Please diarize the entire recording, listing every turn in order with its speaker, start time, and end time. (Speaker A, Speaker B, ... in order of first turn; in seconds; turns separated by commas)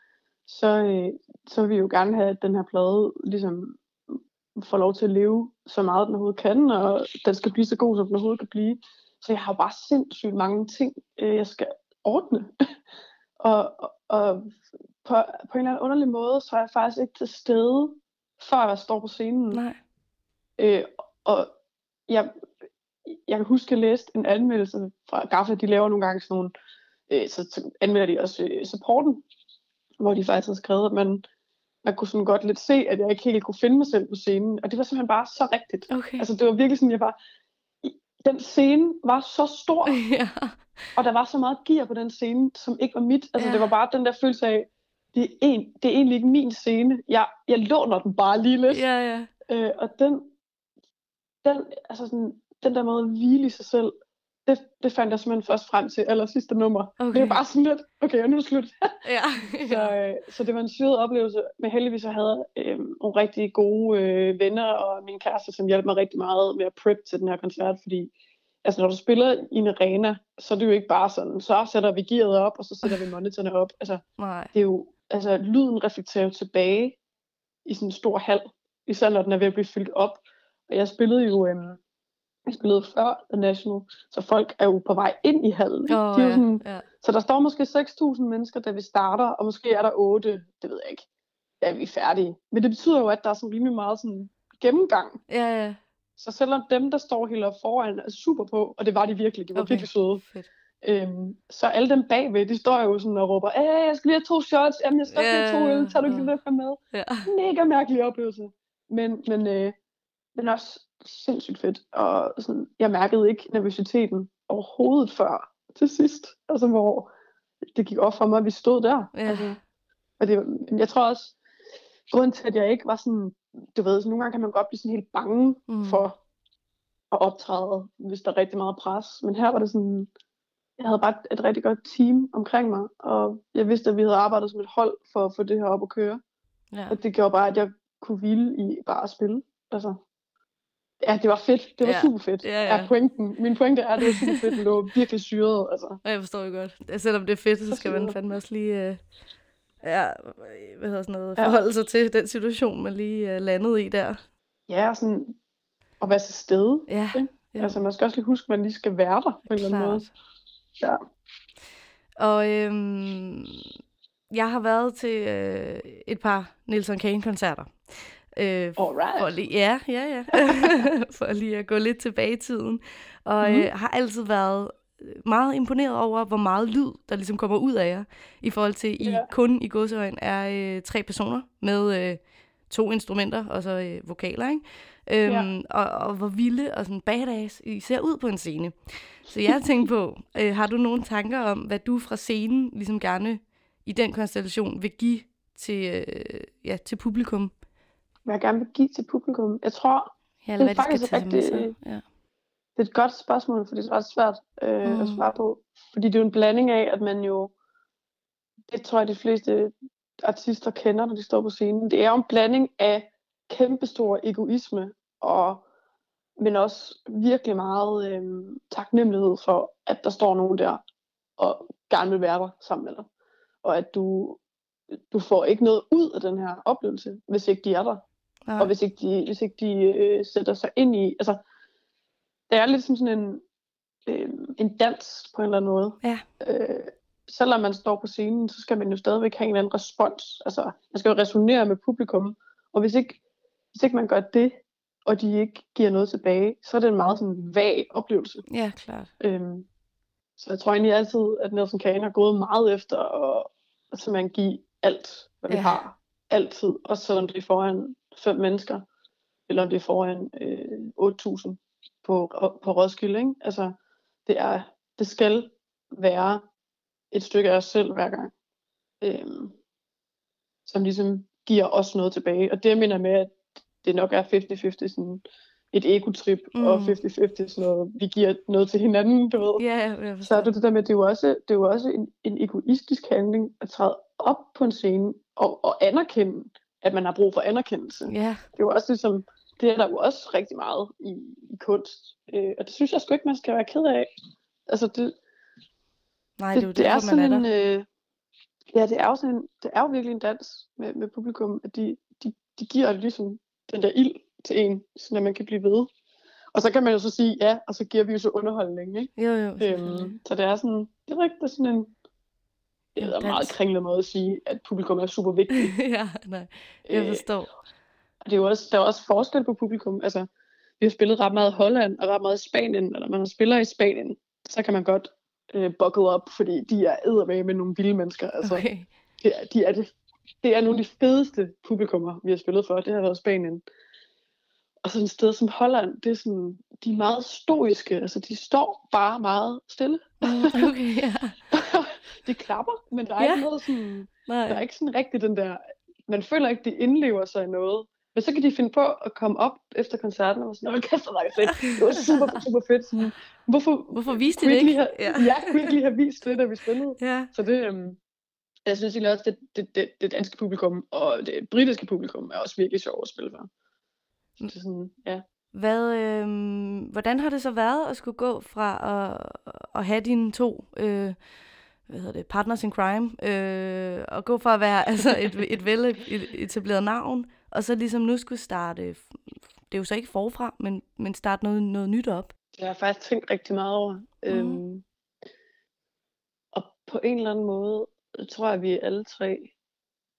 Speaker A: 0.5-12.5, Speaker A: 13.4-19.6, Speaker B: 19.5-19.8, Speaker A: 20.6-21.5, Speaker A: 22.1-22.3, Speaker A: 23.1-26.5, Speaker A: 27.1-29.2, Speaker A: 30.0-31.2, Speaker A: 31.8-37.2, Speaker B: 35.9-36.3, Speaker A: 37.8-40.0, Speaker B: 39.9-40.9, Speaker A: 41.0-48.9, Speaker B: 43.4-43.7, Speaker B: 48.7-49.3, Speaker A: 49.5-50.3, Speaker A: 51.4-53.9, Speaker A: 54.5-68.1, Speaker B: 57.0-57.4, Speaker B: 59.0-59.9, Speaker A: 68.6-74.0, Speaker B: 74.2-74.5, Speaker A: 74.5-77.0, Speaker A: 77.7-81.8, Speaker A: 82.5-91.0, Speaker B: 85.9-86.8, Speaker A: 91.6-95.2, Speaker B: 95.3-95.8, Speaker A: 96.2-100.2, Speaker B: 99.5-100.5, Speaker A: 100.8-109.8, Speaker B: 105.1-106.3, Speaker B: 106.9-107.3, Speaker A: 110.3-117.1, Speaker A: 117.6-119.6, Speaker B: 119.1-119.5, Speaker A: 120.2-121.3, Speaker A: 122.1-126.2, Speaker B: 125.7-126.0, Speaker A: 127.1-130.1, Speaker A: 130.8-136.2, Speaker B: 136.7-137.0, Speaker A: 136.9-140.0, Speaker A: 141.0-146.0, Speaker B: 141.8-142.9, Speaker B: 144.0-144.4, Speaker B: 146.0-149.0, Speaker A: 147.7-148.2, Speaker B: 149.8-154.2, Speaker A: 154.7-155.3, Speaker A: 156.0-160.1, Speaker B: 156.9-157.8, Speaker B: 159.5-160.1, Speaker B: 162.2-163.7, Speaker B: 164.3-167.8, Speaker B: 168.3-188.7, Speaker A: 168.8-169.3, Speaker A: 170.5-170.8, Speaker A: 173.4-173.7, Speaker A: 179.0-179.3, Speaker B: 189.2-197.5, Speaker A: 198.2-201.7, Speaker B: 200.4-202.0, Speaker A: 202.8-207.5, Speaker B: 204.8-205.3, Speaker A: 208.7-215.6, Speaker A: 216.4-220.8, Speaker A: 221.4-223.1, Speaker A: 223.6-224.4, Speaker A: 225.1-228.0, Speaker B: 228.5-228.7, Speaker A: 228.6-231.4, Speaker A: 232.5-233.4, Speaker A: 234.1-243.2, Speaker A: 243.7-248.4, Speaker B: 248.5-249.1, Speaker A: 249.2-249.7, Speaker A: 250.4-258.9, Speaker B: 255.5-255.8, Speaker A: 259.5-266.4, Speaker A: 267.1-268.3, Speaker A: 269.0-269.5, Speaker A: 270.7-279.6, Speaker B: 276.5-277.0, Speaker B: 279.6-280.5, Speaker A: 280.2-294.1, Speaker B: 288.1-288.4, Speaker A: 294.7-295.1, Speaker B: 296.4-297.5, Speaker A: 296.5-297.9, Speaker A: 298.7-305.9, Speaker A: 306.5-311.9, Speaker B: 309.2-310.2, Speaker A: 312.9-315.8, Speaker B: 313.0-313.6, Speaker B: 315.5-317.5, Speaker A: 316.9-317.2, Speaker A: 318.2-320.3, Speaker A: 320.8-328.6, Speaker B: 328.4-328.9, Speaker A: 329.2-333.6, Speaker A: 334.8-340.7, Speaker B: 340.2-341.4, Speaker A: 341.5-358.0, Speaker B: 343.2-343.4, Speaker B: 344.3-344.6, Speaker B: 351.6-352.4, Speaker B: 353.9-355.7, Speaker B: 357.0-357.3, Speaker A: 358.6-363.5, Speaker A: 364.4-365.2, Speaker B: 365.5-371.2, Speaker B: 371.9-379.1, Speaker B: 379.7-382.3, Speaker A: 382.5-384.8, Speaker B: 384.3-384.6, Speaker A: 386.5-389.5